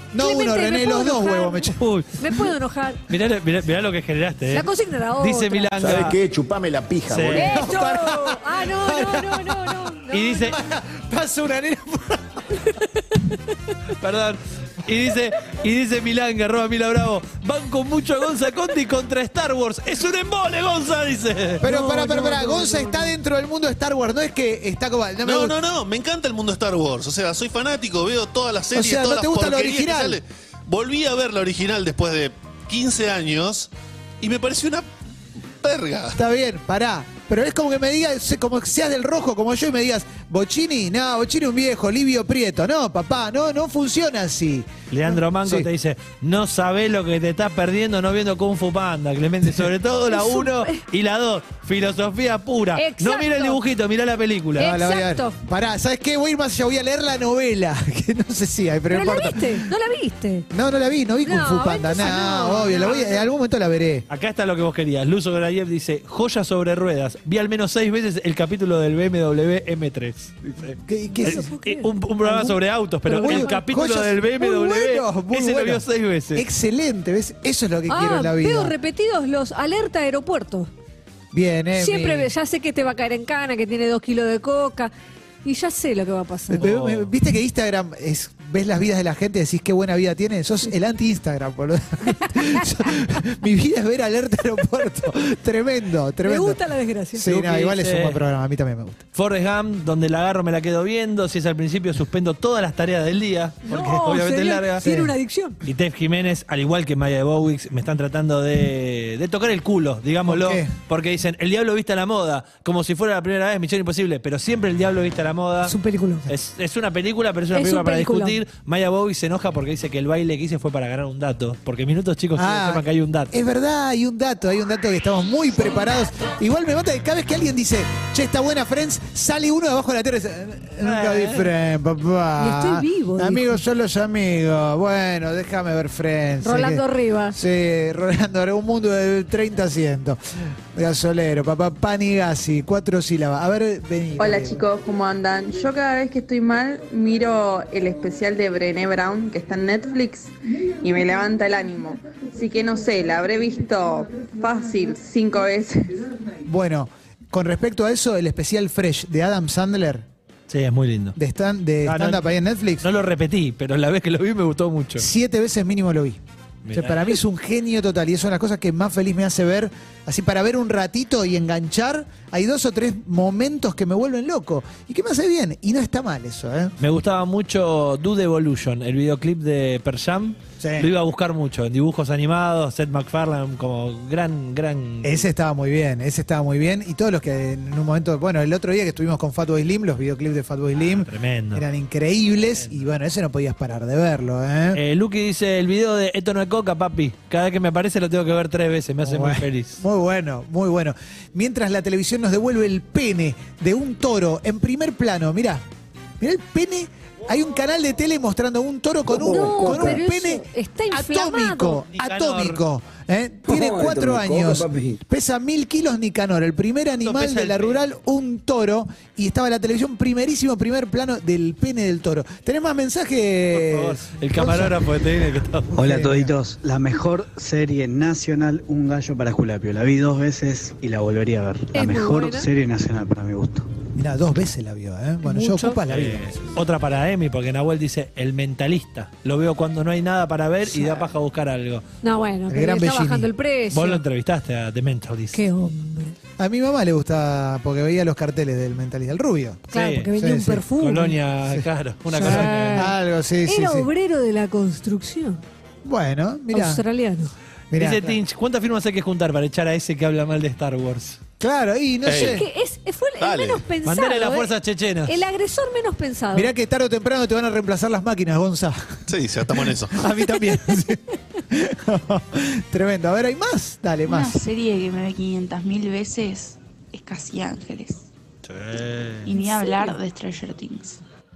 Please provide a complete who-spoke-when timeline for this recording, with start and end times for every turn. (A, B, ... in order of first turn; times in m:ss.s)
0:00.1-0:01.8 A
0:00.2-0:03.0 B
0:01.8-0:02.2 C
0:03.1-0:06.2 C
0:04.5-0:05.8 B
0:07.1-0:07.7 C
0:07.3-0:12.6 A
0:07.3-0:10.5 B
0:10.1-0:10.6 C
0:14.0-0:21.6 C
0:21.6-0:25.6 A
0:21.6-0:23.1 B
0:25.2-0:33.7 D
0:28.7-0:30.2 A
0:34.2-0:34.9 D
0:35.6-0:36.2 D
0:36.1-0:44.7 A
0:44.9-0:54.8 C
0:45.4-0:45.7 A
0:50.1-0:50.8 B
0:52.8-0:53.6 B
0:54.6-0:59.7 A
0:54.6-0:55.4 B
0:58.9-1:00.5 B
1:00.5-1:04.0 A
1:01.2-1:03.3 B
1:04.1-1:16.4 C
1:10.9-1:11.5 A
1:11.2-1:12.5 B
1:13.1-1:13.5 B
1:13.1-1:18.7 A
1:17.9-1:20.7 B
1:21.3-1:22.3 A
1:21.8-1:24.9 B
1:25.4-1:26.7 B
1:26.5-1:36.6 A
1:26.6-1:27.1 C
1:32.2-1:32.6 B
1:36.2-1:37.3 B
1:37.1-1:39.0 A
1:37.3-1:38.2 C
1:39.2-1:44.9 C
1:43.6-1:45.6 B
1:44.8-1:45.1 A
1:45.6-1:55.8 C
1:50.3-1:50.7 A
1:55.6-1:56.3 B
1:56.3-2:03.3 C
1:57.5-1:58.4 B
2:02.4-2:24.6 A
2:10.8-2:11.5 C
2:12.4-2:13.6 B
2:16.4-2:17.4 B
2:24.2-2:36.0 E
2:36.4-2:40.1 A
2:40.5-2:41.2 C
2:41.2-2:42.9 A
2:41.8-2:42.2 C
2:42.8-2:45.1 C
2:45.0-2:46.2 A
2:46.6-2:47.2 C
2:46.7-2:56.7 A
2:56.8-3:05.2 C
3:00.6-3:00.9 A
3:05.0-3:14.8 A
3:10.8-3:11.6 C
3:14.7-3:19.8 C
3:19.0-3:25.6 A
3:26.2-3:44.9 A
3:29.2-3:31.8 B
3:31.9-3:32.6 C
3:37.0-3:37.8 C
3:43.5-3:45.7 C
3:45.8-3:46.3 A
3:45.8-3:53.7 F
3:51.7-3:52.5 B
3:54.0-3:56.4 A
3:55.2-3:55.8 B
3:55.9-4:01.8 C
4:00.7-4:01.1 A
4:02.0-4:04.0 B
4:02.5-4:03.3 A
4:03.7-4:05.4 C
4:05.3-4:06.2 B
4:06.4-4:10.6 A
4:09.7-4:11.2 B
4:09.7-4:10.1 C
4:10.8-4:12.9 C
4:12.1-4:13.9 A
4:12.1-4:12.9 B
4:13.5-4:15.4 B
4:15.8-4:16.8 A
4:16.5-4:17.3 B
4:17.7-4:18.2 A
4:17.8-4:21.2 C
4:21.4-4:22.5 A
4:22.0-4:22.4 D
4:22.1-4:24.5 B
4:23.2-4:23.6 D
4:23.8-4:25.2 C
4:25.1-4:26.5 B
4:26.3-4:34.5 A
4:29.1-4:30.1 D
4:34.0-4:38.0 G
4:38.4-4:39.3 C
4:39.2-4:41.0 G
4:39.5-4:40.0 B